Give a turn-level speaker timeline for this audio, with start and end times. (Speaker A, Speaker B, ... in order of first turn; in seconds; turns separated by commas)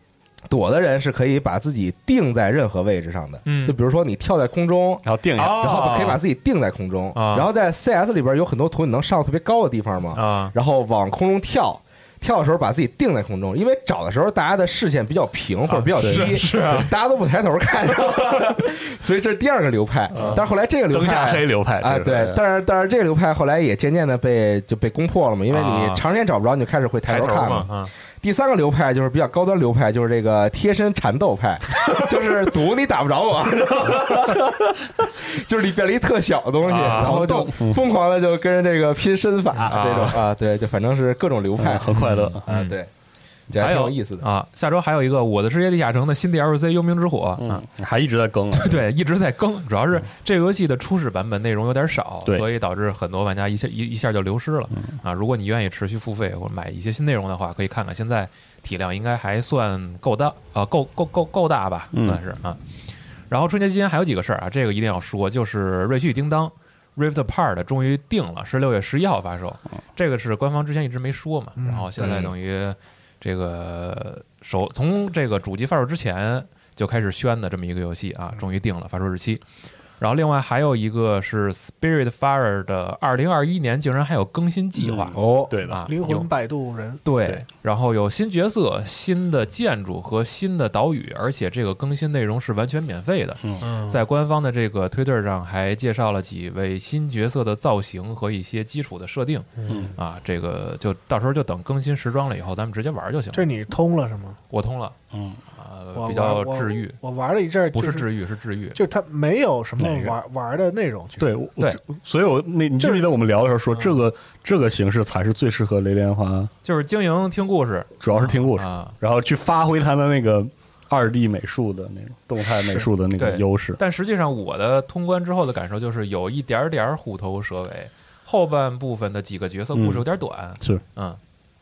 Speaker A: 0.5-41.9, Speaker B: 3.4-3.8, Speaker C: 5.0-6.0, Speaker B: 5.4-6.2, Speaker B: 7.1-7.5, Speaker B: 10.1-10.5, Speaker B: 15.7-16.9, Speaker C: 16.0-16.4, Speaker C: 20.1-22.4, Speaker B: 20.1-20.4, Speaker B: 25.5-26.0, Speaker B: 27.1-27.9, Speaker B: 36.6-37.2, Speaker C: 36.8-37.8, Speaker B: 39.7-40.2, Speaker C: 41.6-42.4, Speaker B: 41.9-42.8, Speaker A: 42.5-42.9, Speaker A: 43.5-44.2, Speaker B: 43.6-47.6, Speaker C: 47.4-48.9, Speaker B: 48.5-62.6, Speaker C: 61.9-62.2, Speaker B: 63.3-79.4, Speaker D: 71.6-71.9, Speaker A: 72.0-72.3, Speaker B: 80.0-86.3, Speaker C: 84.8-85.9, Speaker A: 85.1-85.5, Speaker D: 85.8-87.0, Speaker B: 87.0-103.5, Speaker D: 93.6-94.0, Speaker D: 99.6-99.9, Speaker C: 99.7-99.9, Speaker D: 103.3-104.4, Speaker B: 104.5-104.9, Speaker C: 105.1-105.4, Speaker B: 105.5-107.0, Speaker D: 106.0-108.1, Speaker B: 107.7-108.8, Speaker D: 108.7-111.3, Speaker C: 109.8-110.1, Speaker C: 111.2-116.5, Speaker D: 112.8-113.1, Speaker D: 113.7-114.0, Speaker B: 116.6-118.9, Speaker C: 118.0-123.8, Speaker B: 123.2-131.2, Speaker C: 129.7-130.0